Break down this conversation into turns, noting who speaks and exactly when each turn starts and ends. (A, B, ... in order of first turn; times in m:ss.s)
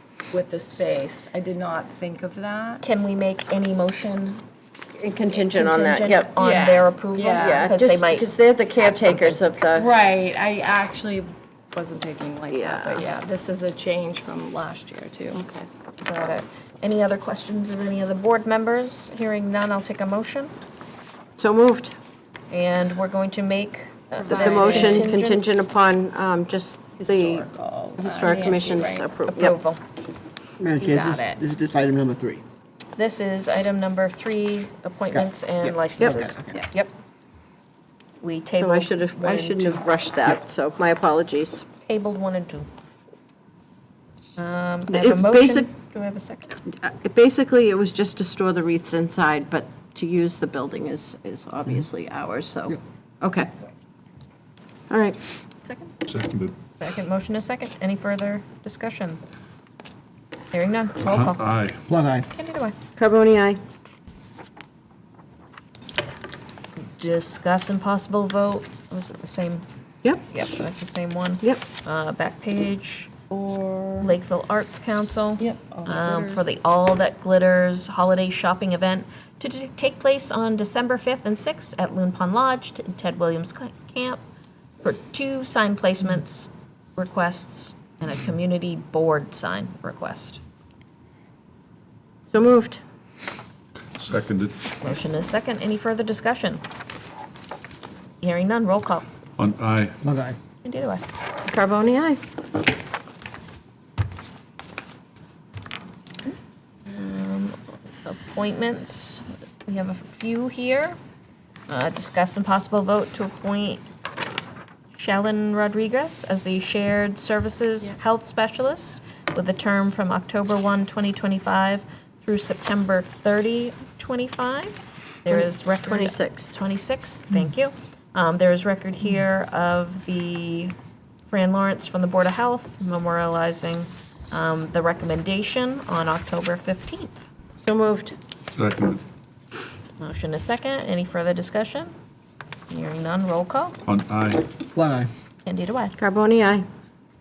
0:00.3-0:02.8 A
0:02.8-0:04.4 B
0:05.0-0:06.3 C
0:05.3-0:09.4 B
0:06.4-0:07.7 A
0:07.4-0:09.9 C
0:09.7-0:15.4 A
0:12.5-0:13.0 C
0:15.3-0:15.7 C
0:16.0-0:20.5 B
0:21.4-0:21.9 C
0:22.5-0:25.4 B
0:24.2-0:25.1 A
0:24.3-0:29.6 C
0:27.0-0:29.1 A
0:29.2-0:29.8 B
0:30.6-0:32.4 D
0:30.8-0:31.4 A
0:33.0-0:36.9 B
0:35.1-0:36.6 D
0:38.2-0:39.8 B
0:38.6-0:41.6 C
0:41.8-0:42.7 B
0:44.4-0:46.6 B
0:44.9-0:45.7 C
0:46.8-0:53.5 C
0:54.9-0:55.2 C
0:56.1-0:56.6 E
0:56.8-0:59.2 B
1:00.5-1:01.5 B
1:01.1-1:01.8 E
1:01.9-1:02.3 D
1:02.3-1:02.8 B
1:03.0-1:03.6 C
1:07.0-1:09.6 B
1:10.3-1:13.2 B
1:13.3-1:14.1 A
1:14.0-1:24.2 B
1:15.4-1:16.5 A
1:24.8-1:30.4 B
1:32.3-1:32.8 C
1:34.0-1:34.6 E
1:34.8-1:36.6 B
1:38.2-1:39.1 B
1:39.4-1:39.9 E
1:40.0-1:40.4 D
1:40.6-1:41.0 B
1:41.4-1:42.2 C
1:46.9-1:51.0 B
1:51.7-1:53.8 B
1:54.9-2:10.7 B
2:05.3-2:06.6 C
2:11.3-2:17.3 B
2:17.6-2:18.1 C
2:18.6-2:19.0 E
2:20.0-2:21.9 B
2:22.7-2:23.8 B
2:23.9-2:24.4 E
2:24.8-2:25.1 D
2:25.4-2:26.0 B
2:26.0-2:26.7 C